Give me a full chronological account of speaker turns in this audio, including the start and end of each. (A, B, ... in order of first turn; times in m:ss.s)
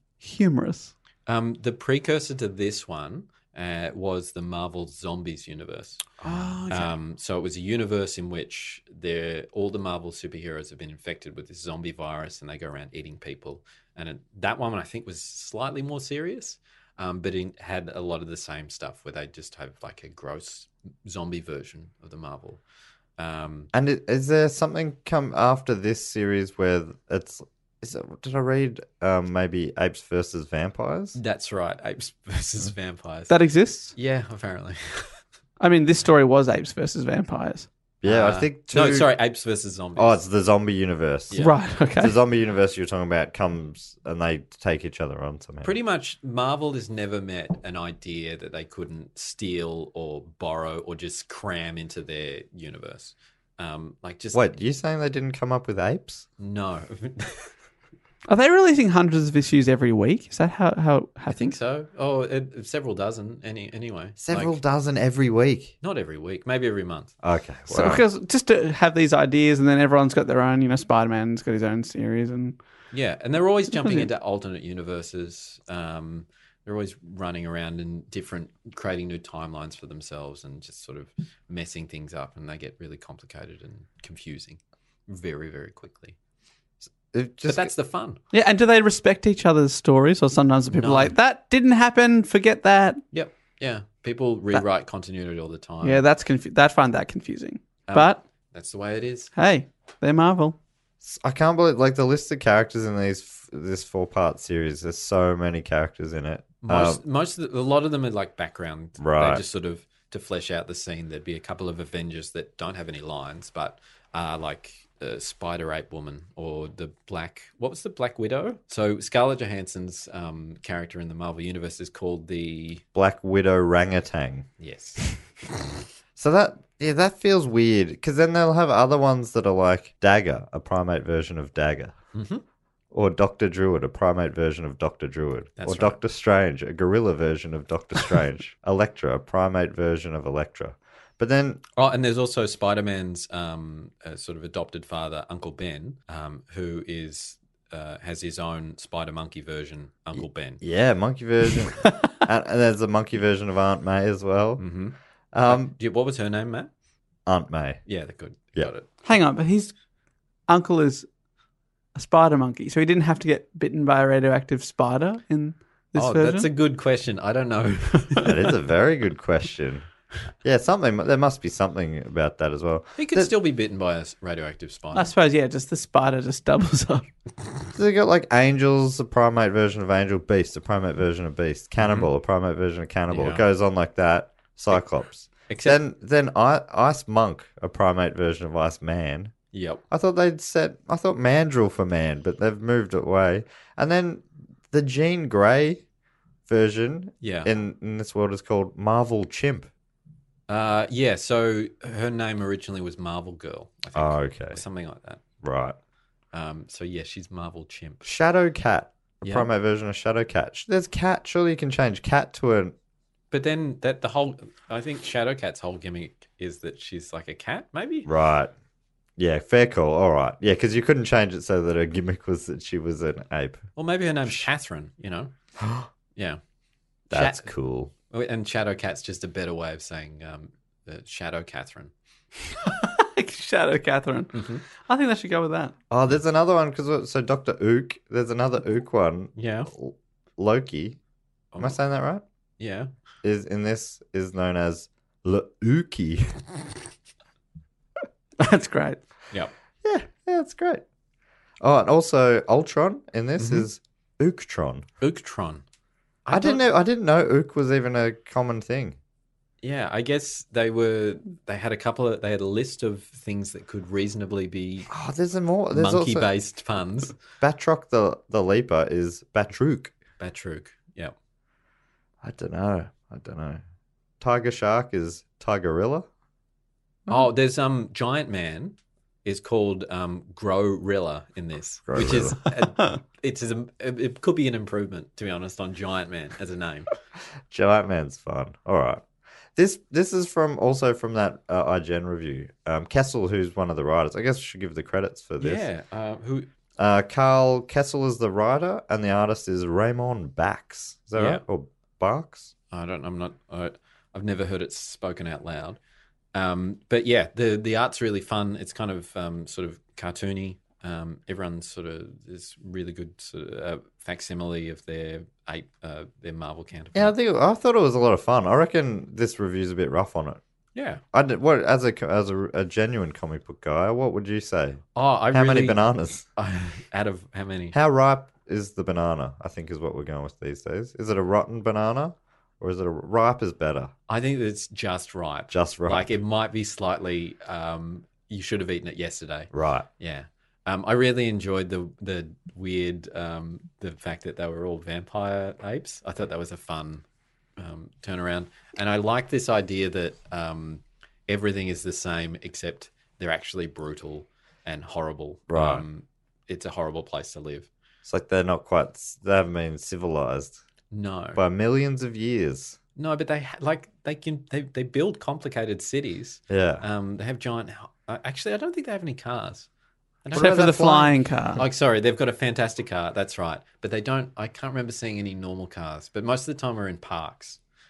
0:00.2-0:00.9 A
0:01.3-0:06.2 B
0:06.2-0:06.9 A
0:06.7-0:22.6 B
0:23.2-0:23.7 B
0:23.7-0:31.2 C
0:31.2-0:33.4 B
0:33.3-0:33.9 A
0:33.9-0:35.2 B
0:35.6-0:37.7 A
0:38.0-0:39.1 C
0:38.0-0:40.2 B
0:40.0-0:41.4 C
0:41.3-0:41.6 B
0:41.4-0:42.2 A
0:42.0-0:45.7 C
0:45.6-0:54.5 B
0:54.3-0:56.3 C
0:56.4-0:57.5 B
0:58.3-1:01.5 A
1:01.3-1:04.6 B
1:04.2-1:05.7 C
1:05.8-1:07.1 B
1:07.2-1:08.0 C
1:07.7-1:12.6 A
1:12.9-1:26.2 B
1:13.8-1:14.1 A
1:27.0-1:27.7 C
1:27.5-1:28.2 B
1:28.3-1:33.0 A
1:30.7-1:31.2 B
1:33.1-1:36.0 B
1:35.8-1:38.2 A
1:37.9-1:39.3 B
1:39.4-1:40.6 A
1:41.0-1:47.0 C
1:46.6-2:02.8 B
1:49.0-1:49.4 C
2:03.0-2:04.5 C
2:04.6-2:05.2 B
2:06.2-2:12.0 C
2:12.2-2:12.4 B
2:12.9-2:21.6 C
2:15.6-2:16.0 B
2:21.8-2:30.6 B
2:30.6-2:34.7 C
2:34.6-2:36.7 B
2:35.3-2:35.7 C
2:37.3-2:37.8 C
2:37.9-2:38.9 B
2:39.0-2:39.7 A
2:40.5-2:41.1 A
2:42.0-2:46.5 A
2:46.0-2:48.4 B
2:48.2-2:49.9 C
2:50.4-2:53.3 C
2:53.0-2:55.1 B
2:54.9-2:57.1 A
2:57.8-3:09.3 C
3:01.8-3:02.1 B
3:03.1-3:03.4 B
3:05.5-3:05.8 B
3:09.5-3:09.8 B
3:09.9-3:15.8 C
3:16.5-3:19.7 C
3:17.2-3:17.5 B
3:20.5-3:25.2 B
3:24.0-3:24.6 C
3:25.4-3:25.8 C
3:26.3-3:28.1 B
3:28.0-3:32.8 C
3:29.2-3:29.5 B
3:33.3-3:38.1 B
3:38.1-3:38.5 C
3:39.2-3:43.6 C
3:43.8-3:45.3 B
3:45.6-3:45.9 C
3:46.2-3:46.4 B
3:47.1-3:47.5 B
3:47.1-3:47.9 C
3:48.1-3:51.9 B
3:52.6-3:55.7 A
3:54.3-3:54.6 B
3:55.9-4:01.0 C
3:59.4-3:59.7 B
4:01.5-4:01.8 B
4:01.6-4:02.2 C
4:02.6-4:02.9 B
4:03.2-4:06.5 C
4:08.4-4:09.0 A
4:09.8-4:10.8 C
4:11.6-4:14.8 C
4:13.4-4:13.7 B
4:15.0-4:15.6 B
4:16.3-4:16.6 B
4:16.3-4:19.0 C
4:19.6-4:24.9 B
4:24.9-4:26.3 C
4:25.7-4:27.2 B
4:27.4-4:29.9 C
4:30.2-4:31.1 B
4:32.2-4:33.6 C
4:34.2-4:36.1 C
4:37.1-4:46.9 B
4:41.9-4:42.4 C
4:47.5-4:49.0 C
4:49.6-4:55.6 C
4:55.4-4:56.5 B
4:56.8-5:02.5 C
5:01.2-5:01.4 B
5:02.7-5:05.8 B
5:06.3-5:17.1 B
5:16.9-5:20.4 C
5:20.8-5:21.0 B
5:21.1-5:26.3 C
5:25.0-5:25.8 B
5:26.4-5:27.8 B
5:27.7-5:33.9 C
5:34.1-5:47.0 B
5:35.5-5:36.1 C
5:39.5-5:39.9 C
5:47.6-5:57.7 B
5:55.5-5:55.8 C
5:58.0-6:00.6 C
6:00.9-6:01.4 B
6:01.4-6:02.8 C
6:03.0-6:09.7 B
6:06.5-6:06.8 C
6:10.2-6:10.7 B
6:10.3-6:11.2 C
6:10.4-6:11.6 A
6:11.6-6:17.6 B